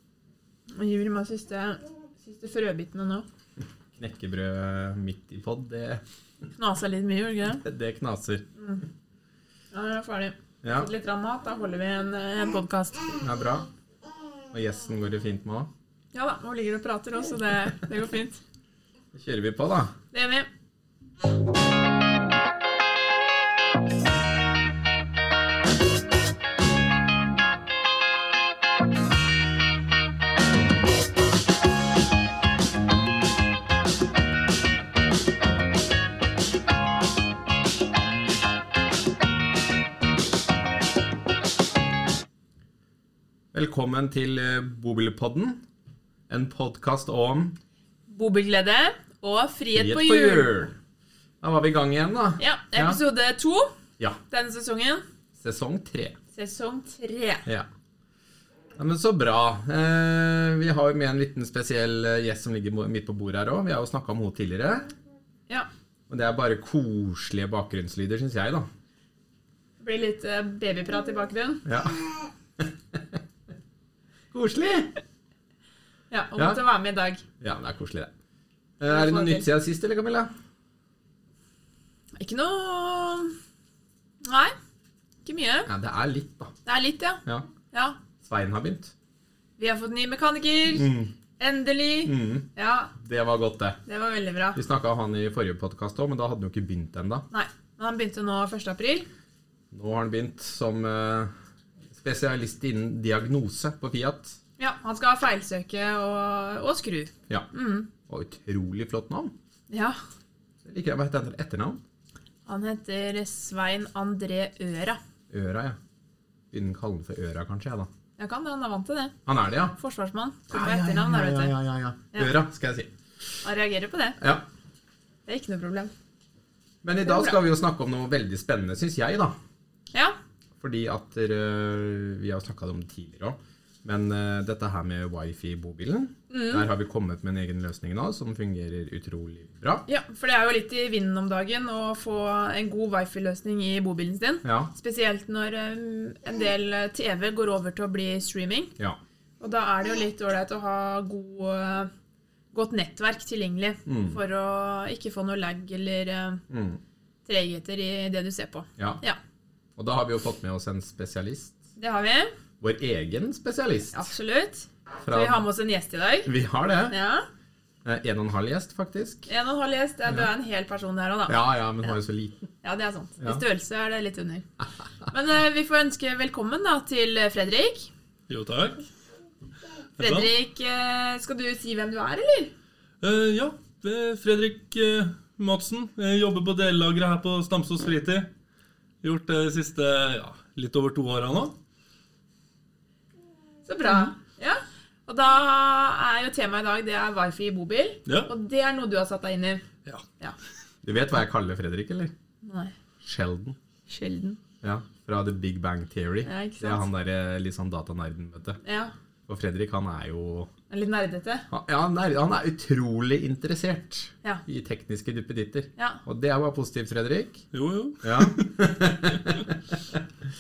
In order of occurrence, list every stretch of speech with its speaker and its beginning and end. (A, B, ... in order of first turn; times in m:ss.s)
0:00.7-0:03.2 A
0:04.0-0:06.0 B
0:06.6-0:07.6 A
0:07.6-0:08.5 B
0:08.6-0:08.8 A
0:09.7-0:13.2 A
0:10.6-0:10.9 B
0:13.2-0:13.7 B
0:14.5-0:15.7 B
0:16.1-0:18.4 A
0:19.1-0:19.9 B
0:20.1-0:20.5 A
0:43.5-0:45.6 B
0:46.3-0:47.6 B
0:48.1-0:50.6 A
0:49.7-0:50.8 B
0:51.4-0:53.0 B
0:52.4-0:53.7 A
0:54.3-0:55.0 A
0:55.4-0:56.2 B
0:56.3-0:57.4 A
0:58.8-1:04.9 B
1:06.1-1:08.7 B
1:09.8-1:11.6 A
1:11.6-1:13.2 B
1:14.3-1:15.0 B
1:16.1-1:17.2 A
1:16.4-1:16.6 B
1:17.4-1:18.1 B
1:18.8-1:20.3 B
1:18.9-1:19.5 A
1:22.2-1:23.3 A
1:24.2-1:24.5 A
1:25.2-1:25.7 A
1:25.7-1:26.5 B
1:26.6-1:28.0 A
1:28.2-1:28.9 B
1:29.6-1:30.9 A
1:30.7-1:31.1 B
1:31.4-1:32.9 A
1:32.0-1:33.8 B
1:33.9-1:34.6 A
1:34.6-1:37.3 B
1:37.3-1:39.1 A
1:39.7-1:41.3 B
1:42.0-1:44.4 B
1:44.6-1:47.9 A
1:48.1-1:49.3 B
1:49.7-1:50.0 A
1:50.6-1:51.8 B
1:52.5-1:55.0 A
1:55.3-1:55.8 B
1:56.5-1:57.9 B
1:58.2-1:59.1 A
1:59.3-1:59.8 B
1:59.7-2:01.6 A
2:00.5-2:02.9 B
2:03.4-2:04.2 A
2:05.3-2:05.9 A
2:06.8-2:09.4 B
2:07.0-2:07.4 A
2:10.6-2:19.8 B
2:16.3-2:16.7 A
2:19.9-2:28.7 A
2:24.4-2:24.7 B
2:29.4-2:31.9 A
2:32.5-2:36.4 A
2:33.9-2:34.2 B
2:36.5-2:36.8 B
2:37.2-2:39.2 A
2:39.8-2:41.6 B
2:41.8-2:42.3 A
2:42.6-2:44.1 B
2:43.9-2:46.3 A
2:45.0-2:45.4 B
2:46.2-2:47.0 B
2:46.9-2:47.3 A
2:47.8-2:49.3 B
2:49.3-2:52.0 A
2:51.3-2:52.4 B
2:52.6-2:54.5 A
2:55.1-2:57.9 A
2:58.3-2:58.8 C
3:00.0-3:00.3 C
3:00.0-3:02.5 A
3:03.0-3:08.3 C
3:09.0-3:11.6 C
3:13.7-3:19.6 A
3:18.1-3:18.3 C
3:20.8-3:22.1 B
3:22.4-3:22.8 A
3:23.0-3:23.6 B
3:23.9-3:24.4 A
3:24.6-3:28.6 B
3:26.2-3:26.9 A
3:28.6-3:28.9 A
3:29.3-3:30.5 B
3:30.7-3:31.5 A
3:31.5-3:37.4 B
3:35.8-3:36.0 A
3:37.5-3:38.6 C
3:38.0-3:40.0 B
3:39.1-3:39.4 C